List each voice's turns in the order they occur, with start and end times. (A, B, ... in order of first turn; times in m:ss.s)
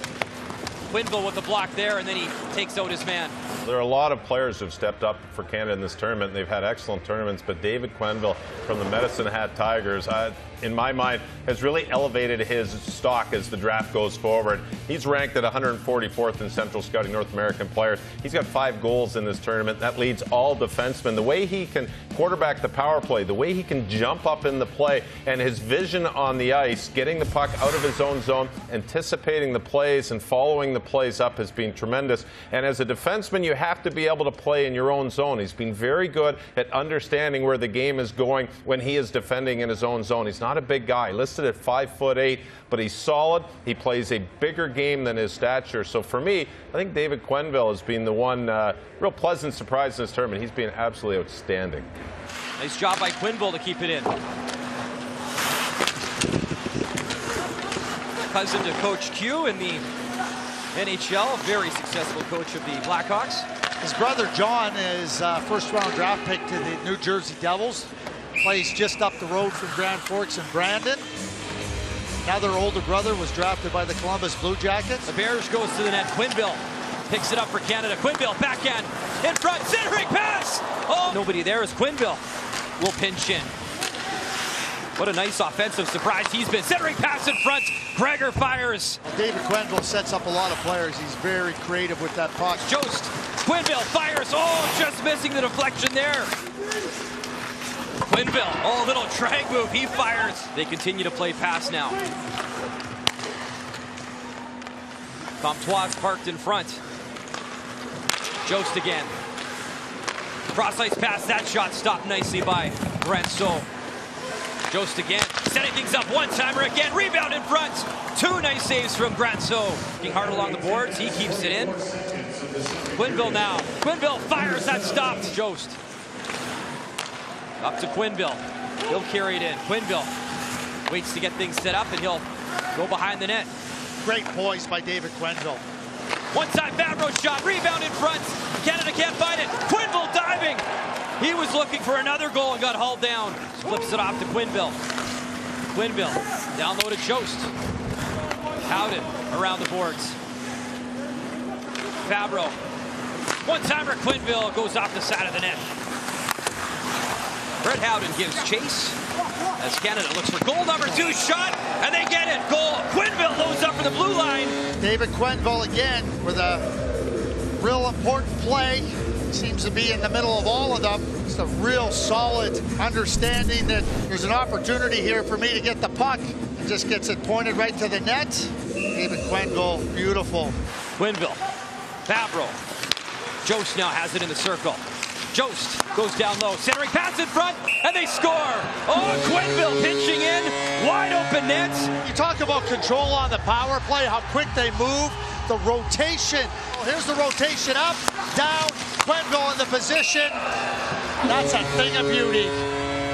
0:00.9-0:03.4 A
0:03.6-0:51.9 B
0:52.6-0:54.1 A
0:58.3-0:59.8 A
1:00.7-1:03.5 A
1:03.8-1:11.1 C
1:12.2-1:15.1 C
1:15.1-1:22.2 A
1:22.8-1:23.5 A
1:25.0-1:29.0 A
1:29.1-1:32.6 C
1:32.6-1:36.3 A
1:38.1-1:42.0 A
1:45.4-1:46.8 A
1:48.4-1:49.1 A
1:50.5-1:53.7 A
1:54.7-2:01.8 A
2:02.9-2:05.8 A
2:07.6-2:10.1 A
2:10.9-2:13.5 A
2:14.0-2:15.6 C
2:16.3-2:20.6 A
2:21.2-2:24.8 A
2:25.7-2:27.5 A
2:28.6-2:30.2 A
2:32.0-2:32.6 A
2:33.4-2:35.7 A
2:37.6-2:39.0 A
2:39.6-2:44.6 A
2:44.8-2:46.7 C
2:47.6-3:00.6 C
3:01.0-3:01.4 A
3:02.1-3:02.6 A
3:03.4-3:11.9 A
3:12.0-3:20.4 C
3:21.2-3:22.6 C